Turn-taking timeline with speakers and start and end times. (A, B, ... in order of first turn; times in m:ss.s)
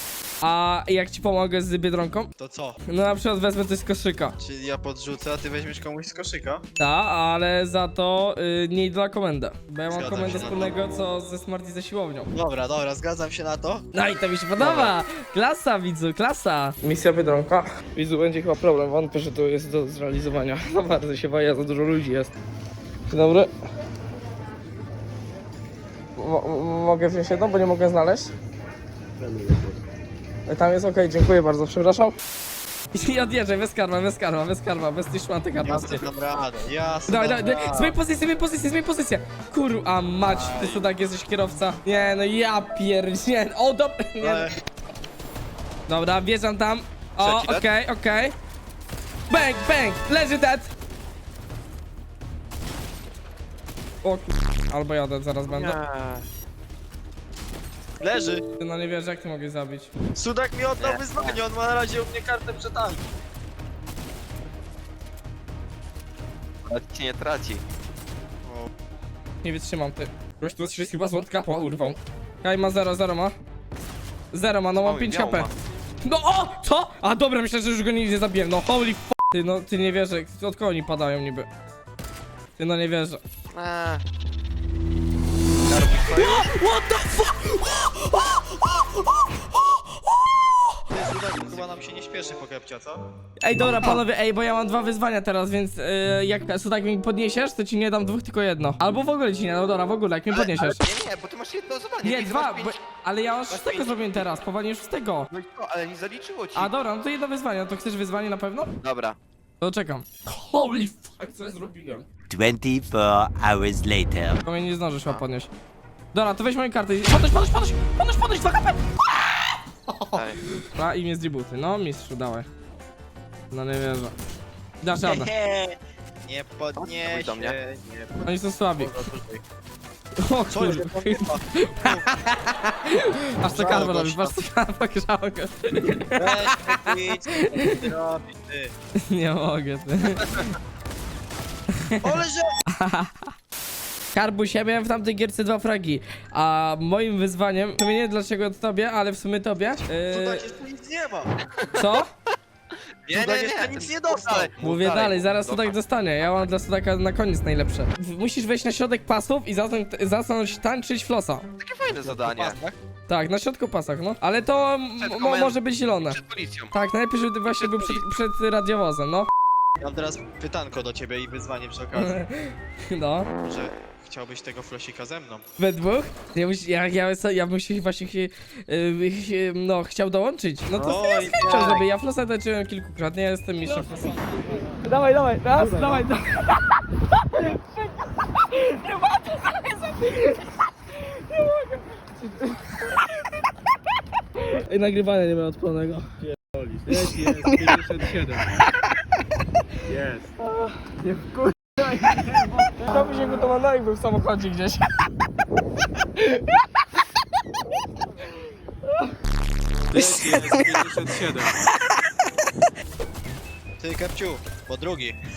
0:00.4-0:02.3 A
0:02.4-0:02.8 B
0:02.9-0:04.3 A
0:04.4-0:06.6 B
0:06.8-0:12.3 A
0:09.9-0:10.7 B
0:12.3-0:13.8 B
0:13.9-0:22.3 A
0:14.6-0:14.9 B
0:23.1-0:23.5 A
0:26.2-0:28.3 A
0:30.5-0:32.1 A
0:32.9-0:36.0 A
0:35.6-0:37.9 B
0:37.1-0:44.5 A
0:40.2-0:40.8 C
0:44.2-0:44.6 B
0:45.9-0:48.3 A
0:47.2-0:47.7 C
0:49.3-0:50.7 A
0:54.0-0:55.8 A
0:55.4-0:56.2 C
0:58.0-0:58.4 B
0:58.6-0:59.9 A
1:00.2-1:03.0 B
1:00.8-1:01.4 C
1:06.7-1:07.6 C
1:08.4-1:08.7 B
1:09.4-1:13.3 A
1:14.3-1:15.5 A
1:14.8-1:15.5 C
1:16.0-1:21.5 A
1:22.6-1:23.2 A
1:23.5-1:24.0 C
1:25.6-1:26.5 C
1:26.2-1:30.8 A
1:30.9-1:33.0 B
1:33.4-1:40.8 A
1:33.6-1:33.9 C
1:40.3-1:42.8 C
1:42.0-1:45.3 A
1:43.5-1:44.3 C
1:45.3-1:46.7 C
1:46.5-1:48.7 A
1:48.8-1:49.2 C
1:49.6-1:52.0 A
1:52.3-1:54.4 D
1:54.4-1:55.5 A
1:56.1-1:59.4 A
2:00.1-2:00.4 C
2:00.7-2:02.5 A
2:03.5-2:04.1 A
2:04.8-2:05.3 A
2:05.0-2:09.4 B
2:06.8-2:07.6 C
2:08.2-2:08.9 A
2:10.2-2:16.8 A
2:10.5-2:12.1 B
2:13.4-2:14.4 B
2:16.2-2:18.7 B
2:17.4-2:17.8 A
2:19.1-2:20.3 A
2:22.0-2:22.5 B
2:22.7-2:23.3 A
2:24.1-2:30.4 A
2:30.1-2:31.3 B
2:31.7-2:32.1 A
2:33.0-2:36.5 C
2:33.1-2:34.5 B
2:34.6-2:41.4 A
2:41.6-2:42.6 C
2:42.0-2:42.8 B
2:43.1-2:46.2 A
2:45.0-2:46.7 C
2:46.7-2:49.3 A
2:47.4-2:48.0 C
2:49.8-2:52.2 B
2:52.0-2:53.3 A
2:53.4-2:55.4 B
2:55.6-3:13.1 A
3:00.7-3:01.8 B
3:05.6-3:06.0 B
3:14.4-3:16.0 A
3:16.6-3:18.4 E
3:16.9-3:17.6 A
3:19.9-3:20.3 E
3:20.5-3:24.9 A
3:26.2-3:26.8 A
3:29.9-3:31.1 A
3:30.0-3:30.6 B
3:30.1-3:31.4 E
3:33.8-3:35.2 B